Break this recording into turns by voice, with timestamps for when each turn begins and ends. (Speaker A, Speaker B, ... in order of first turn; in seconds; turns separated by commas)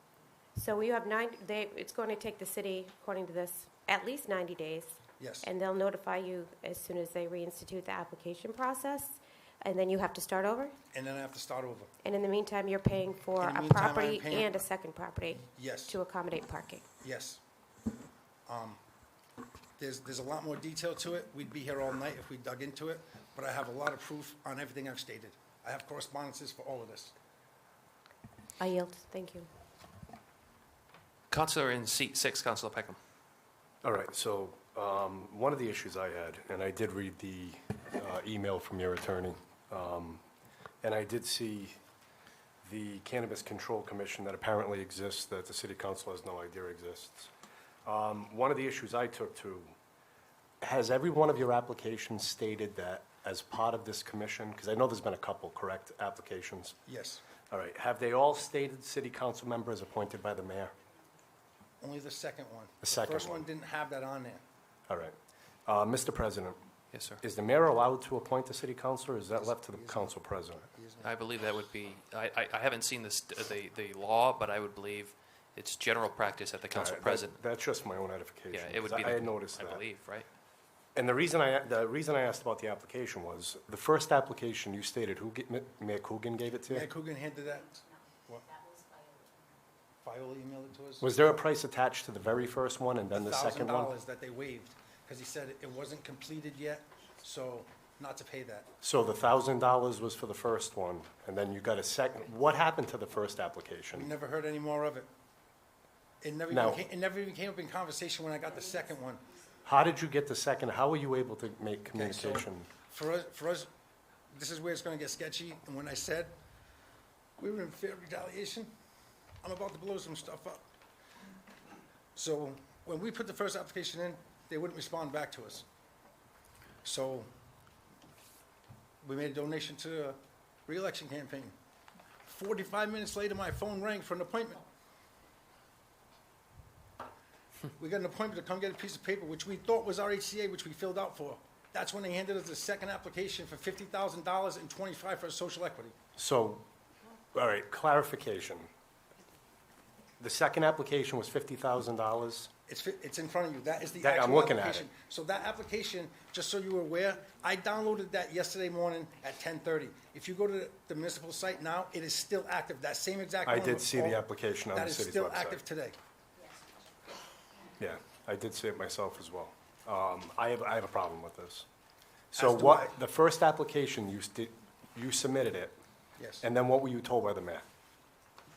Speaker A: 0.6-10.7, Speaker B: 5.2-5.5, Speaker B: 10.9-11.9, Speaker A: 12.0-16.9, Speaker B: 13.4-14.5, Speaker B: 15.5-16.0, Speaker B: 17.0-17.4, Speaker B: 18.5-18.8, Speaker B: 19.8-27.1, Speaker A: 28.6-29.5, Speaker C: 31.3-33.0, Speaker D: 33.8-40.2, Speaker D: 40.8-41.8, Speaker D: 42.6-47.3, Speaker D: 47.8-49.7, Speaker D: 50.6-56.8, Speaker B: 56.9-57.2, Speaker D: 57.5-60.7, Speaker B: 61.8-64.4, Speaker D: 62.8-63.5, Speaker D: 64.9-65.1, Speaker D: 65.7-66.6, Speaker C: 66.9-67.2, Speaker D: 67.2-70.7, Speaker B: 69.4-71.2, Speaker C: 71.0-77.4, Speaker D: 76.7-79.8, Speaker C: 78.5-80.3, Speaker D: 80.9-86.9, Speaker B: 86.7-88.4, Speaker B: 90.0-91.1, Speaker D: 91.0-93.9, Speaker B: 93.1-98.7, Speaker D: 98.8-104.1, Speaker B: 103.9-105.1, Speaker B: 106.2-109.2, Speaker D: 106.5-106.8, Speaker D: 109.6-112.7, Speaker B: 111.9-113.7, Speaker B: 114.3-116.3, Speaker B: 117.4-118.7, Speaker B: 119.4-120.6, Speaker B: 122.1-125.7, Speaker B: 126.8-127.3, Speaker B: 129.0-131.5, Speaker B: 132.2-134.6, Speaker B: 137.8-145.9, Speaker D: 146.2-146.7, Speaker D: 147.3-148.7, Speaker D: 150.2-152.5, Speaker B: 152.7-165.9, Speaker D: 154.0-154.9, Speaker D: 163.4-165.6, Speaker D: 167.8-171.7, Speaker D: 172.3-175.8, Speaker B: 172.3-172.9, Speaker B: 176.2-176.4, Speaker D: 176.4-177.7